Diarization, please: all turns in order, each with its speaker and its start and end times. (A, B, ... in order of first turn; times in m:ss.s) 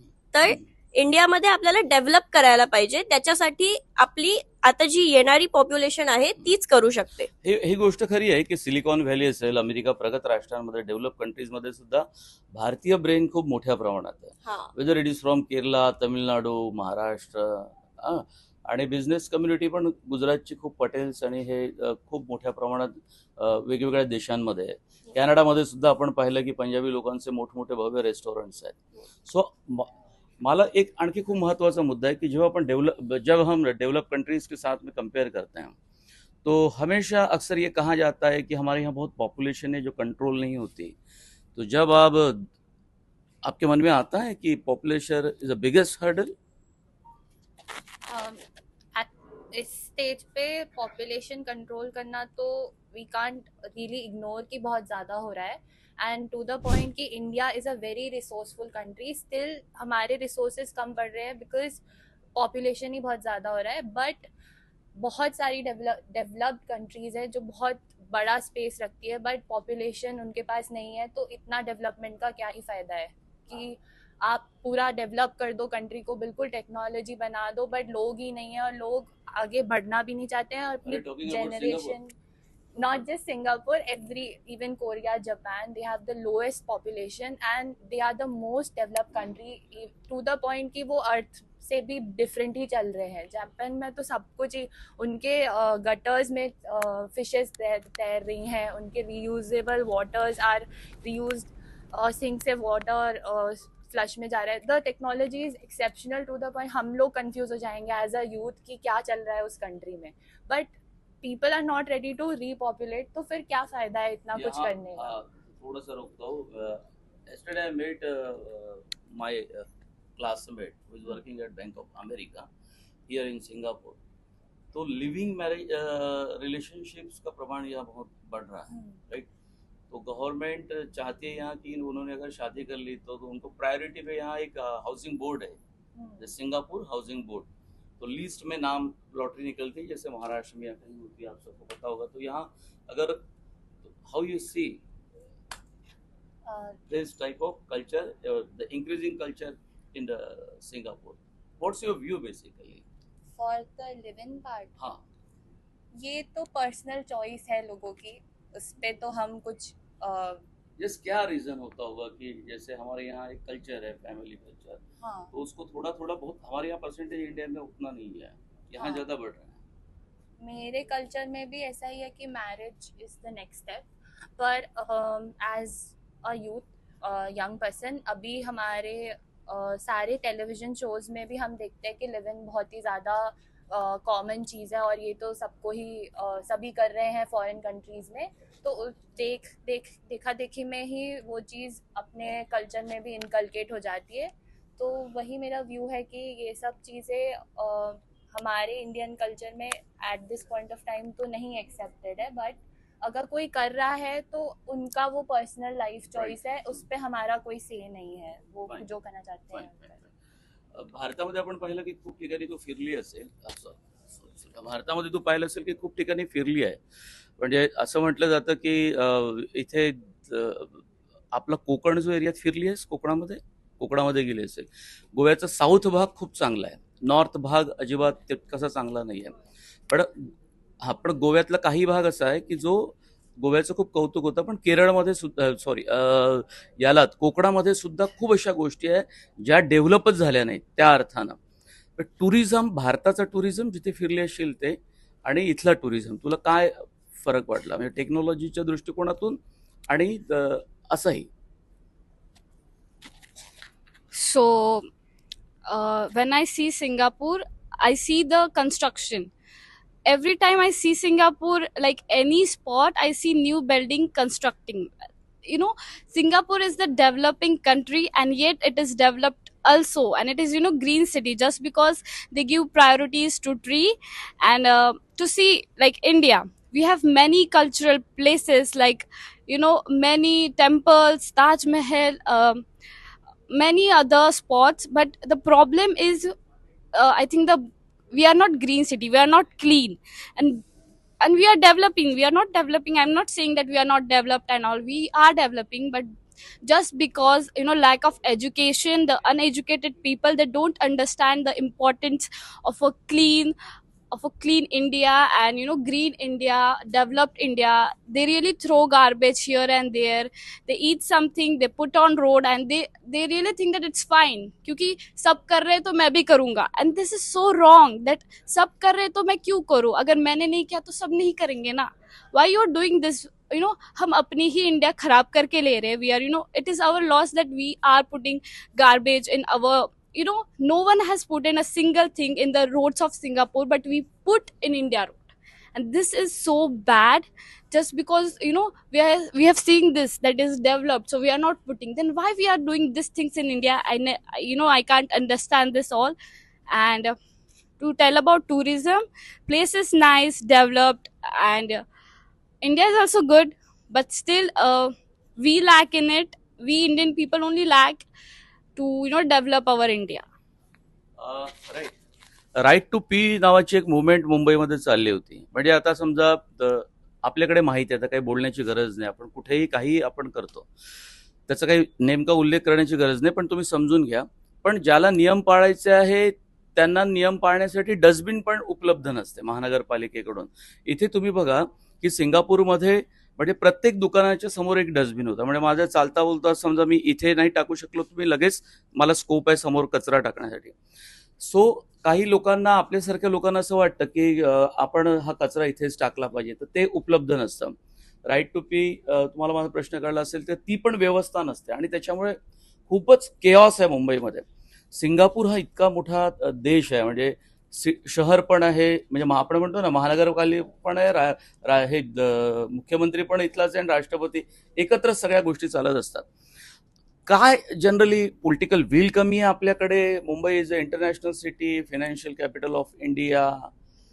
0:00.3-0:07.3 A
0:07.4-0:29.9 B
0:14.4-0:14.7 A
0:30.4-0:35.8 B
0:36.4-0:40.9 B
0:41.6-0:42.5 B
0:43.4-0:46.3 B
0:48.1-0:48.4 C
0:48.9-1:01.8 C
1:02.4-1:04.3 C
1:05.0-1:22.1 C
1:20.8-1:22.0 B
1:22.8-1:55.2 C
1:54.3-1:59.6 B
2:00.2-2:02.5 B
2:03.1-2:04.0 B
2:04.7-2:09.3 B
2:08.7-2:09.0 C
2:09.9-2:15.6 B
2:16.0-2:16.3 C
2:16.2-2:17.5 B
2:18.0-2:23.2 B
2:23.8-2:24.8 B
2:26.4-2:26.8 C
2:26.9-2:32.8 B
2:33.4-2:34.7 C
2:36.0-2:40.4 C
2:40.8-2:44.8 B
2:45.0-2:45.3 C
2:45.3-2:49.6 B
2:48.8-2:49.1 C
2:50.4-3:30.0 C
3:26.1-3:26.4 B
3:30.7-3:36.8 B
3:37.4-3:49.4 B
3:49.9-4:01.4 B
4:02.0-4:09.4 B
4:09.9-4:11.3 B
4:14.1-4:14.8 D
4:15.6-4:19.3 D
4:20.0-4:24.9 D
4:25.4-4:42.6 D
4:43.5-4:46.3 D
4:46.9-4:50.6 D
4:51.2-4:56.1 D
4:56.6-5:03.5 D
5:04.1-5:46.1 D
5:46.7-5:47.1 D
5:47.8-5:51.8 D
5:52.6-5:58.0 D
5:58.8-6:00.2 D
6:01.2-6:01.9 B
6:02.6-6:10.7 B
6:11.5-6:30.7 B
6:31.4-6:37.7 B
6:38.3-6:42.4 B
6:42.9-6:56.2 B
6:57.3-7:03.7 B